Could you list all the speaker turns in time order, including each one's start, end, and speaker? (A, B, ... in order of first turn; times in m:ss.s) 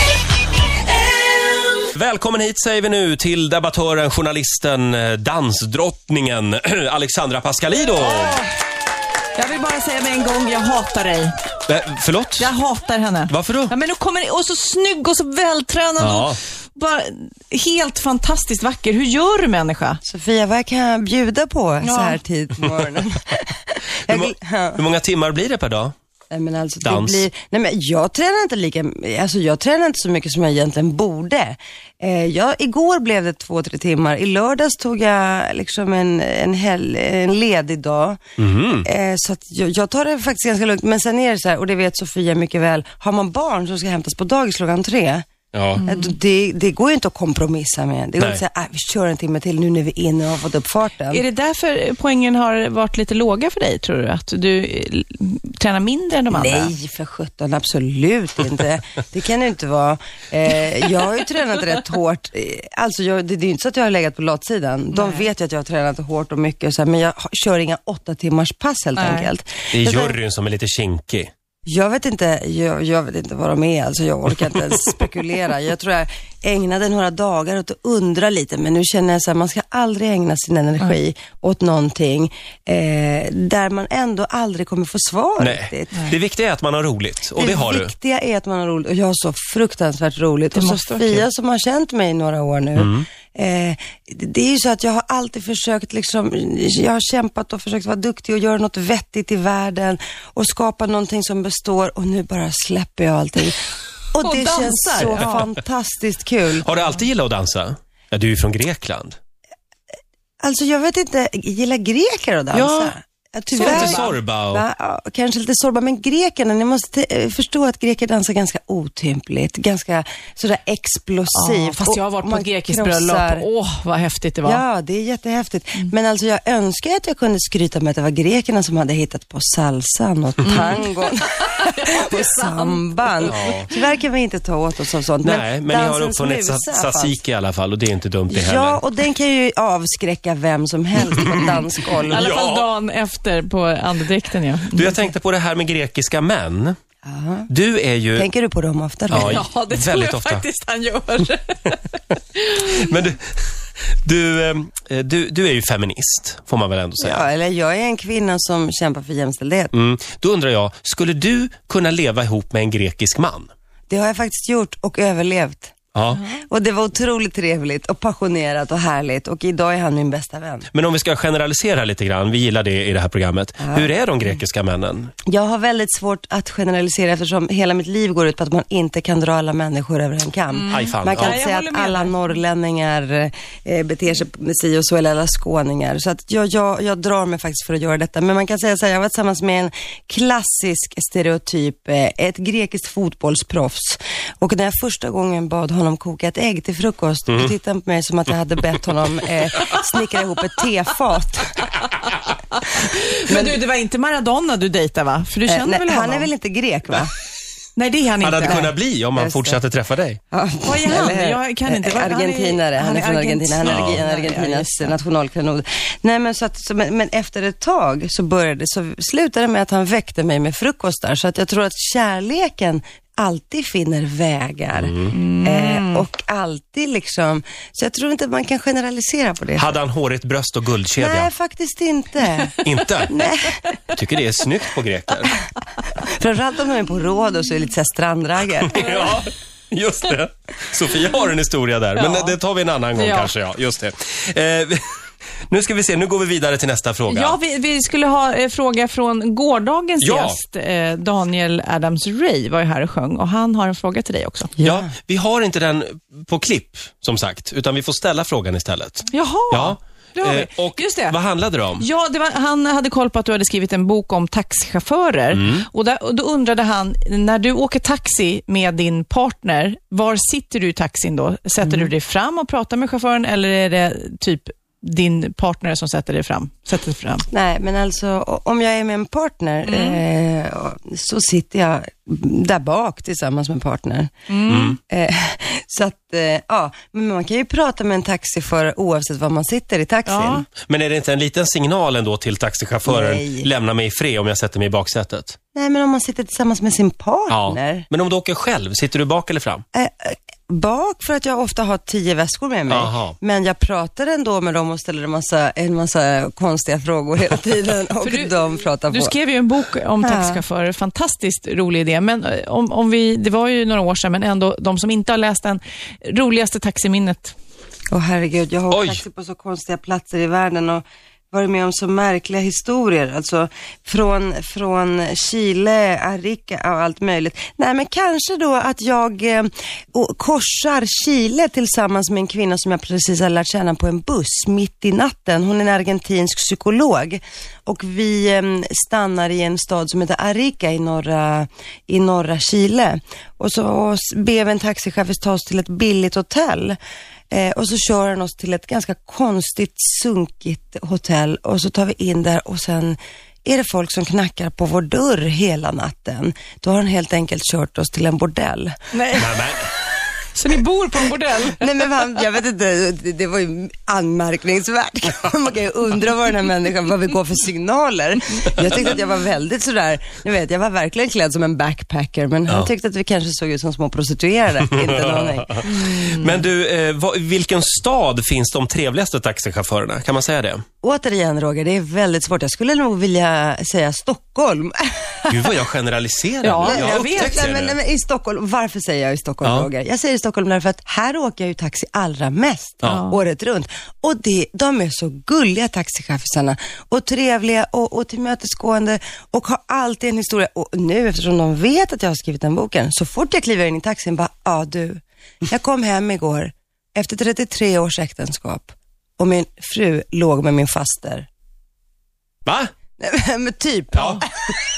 0:01.9-0:08.4 A
0:08.0-0:08.5 B
0:09.4-0:11.3 B
0:11.7-0:12.5 A
0:12.4-0:20.0 B
0:13.3-0:13.7 A
0:16.0-0:16.4 A
0:20.0-0:24.8 C
0:21.8-0:22.2 B
0:24.1-0:25.9 A
0:26.3-0:38.2 C
0:26.8-0:27.3 A
0:38.4-0:38.9 A
0:38.8-0:45.3 C
0:45.5-0:45.8 A
0:45.8-0:46.2 B
0:45.9-0:51.2 C
0:51.1-0:56.7 B
0:56.3-1:10.2 C
1:04.9-1:05.3 B
1:09.0-1:09.3 B
1:09.7-1:11.3 A
1:11.7-1:26.1 C
1:25.4-1:27.9 A
1:27.4-1:43.6 C
1:30.5-1:31.3 B
1:32.8-1:33.1 A
1:44.1-1:46.7 C
1:44.2-1:45.5 B
1:46.6-1:49.2 A
1:50.4-2:03.5 C
1:52.5-1:52.9 A
1:53.6-1:54.2 B
1:53.6-1:54.6 A
2:01.3-2:04.6 B
2:04.4-2:17.2 C
2:10.4-2:13.9 B
2:13.2-2:13.7 A
2:15.2-2:18.8 A
2:18.3-2:22.2 C
2:21.1-2:22.7 A
2:22.1-2:25.1 B
2:24.7-2:26.8 A
2:27.0-2:27.5 C
2:27.5-2:28.3 A
2:28.2-2:29.4 C
2:29.1-2:30.5 A
2:29.1-2:32.8 B
2:32.7-2:37.3 A
2:37.0-2:39.7 C
2:39.7-2:43.5 A
2:43.9-2:45.7 C
2:45.9-2:46.2 A
2:46.4-2:50.7 C
2:50.7-2:55.1 A
2:53.6-2:53.9 C
2:55.3-3:21.5 C
3:00.5-3:02.4 B
3:00.7-3:01.4 A
3:17.3-3:17.5 A
3:22.5-3:26.3 B
3:23.3-3:23.6 C
3:25.5-3:27.1 C
3:27.8-3:28.7 B
3:28.2-3:30.2 A
3:28.5-3:29.6 C
3:30.3-3:49.8 C
3:30.6-3:34.9 B
3:33.6-3:34.0 A
3:44.8-3:45.2 A
3:45.1-3:46.0 B
3:49.6-3:51.3 A
3:51.0-3:53.7 C
3:52.6-3:53.1 A
3:53.9-3:55.4 A
3:56.0-3:58.8 C
3:58.6-4:04.8 A
3:58.8-3:59.2 B
4:02.0-4:02.4 B
4:03.0-4:03.3 B
4:05.5-4:07.4 A
4:07.1-4:14.5 B
4:10.0-4:10.4 A
4:14.6-4:14.9 C
4:14.6-4:21.9 A
4:19.1-4:21.2 B
4:21.8-4:37.2 B
4:25.3-4:25.7 A
4:31.6-4:31.9 C
4:37.3-4:44.1 C
4:39.7-4:40.0 B
4:44.3-4:44.8 B
4:44.5-4:44.8 A
4:44.8-4:50.4 C
4:50.1-4:50.4 B
4:50.6-4:55.4 A
4:52.9-4:53.5 C
4:55.5-4:57.9 C
4:57.3-4:59.6 A
4:59.7-5:09.2 C
5:02.7-5:03.2 A
5:08.0-5:17.4 B
5:10.0-5:10.4 C
5:17.9-5:46.8 C
5:18.7-5:19.0 A
5:47.3-5:58.7 C
5:58.9-5:59.5 B
5:59.1-5:59.6 A
6:00.3-6:01.7 B
6:01.6-6:15.6 C
6:14.9-6:20.6 A
6:15.6-6:16.4 B
6:20.8-6:25.6 C
6:25.3-6:27.8 A
6:26.4-6:27.4 B
6:26.6-6:51.3 C
6:32.8-6:33.2 B
6:52.4-6:52.7 A
6:53.0-6:54.5 C
6:53.9-6:54.2 A
6:54.0-6:54.2 B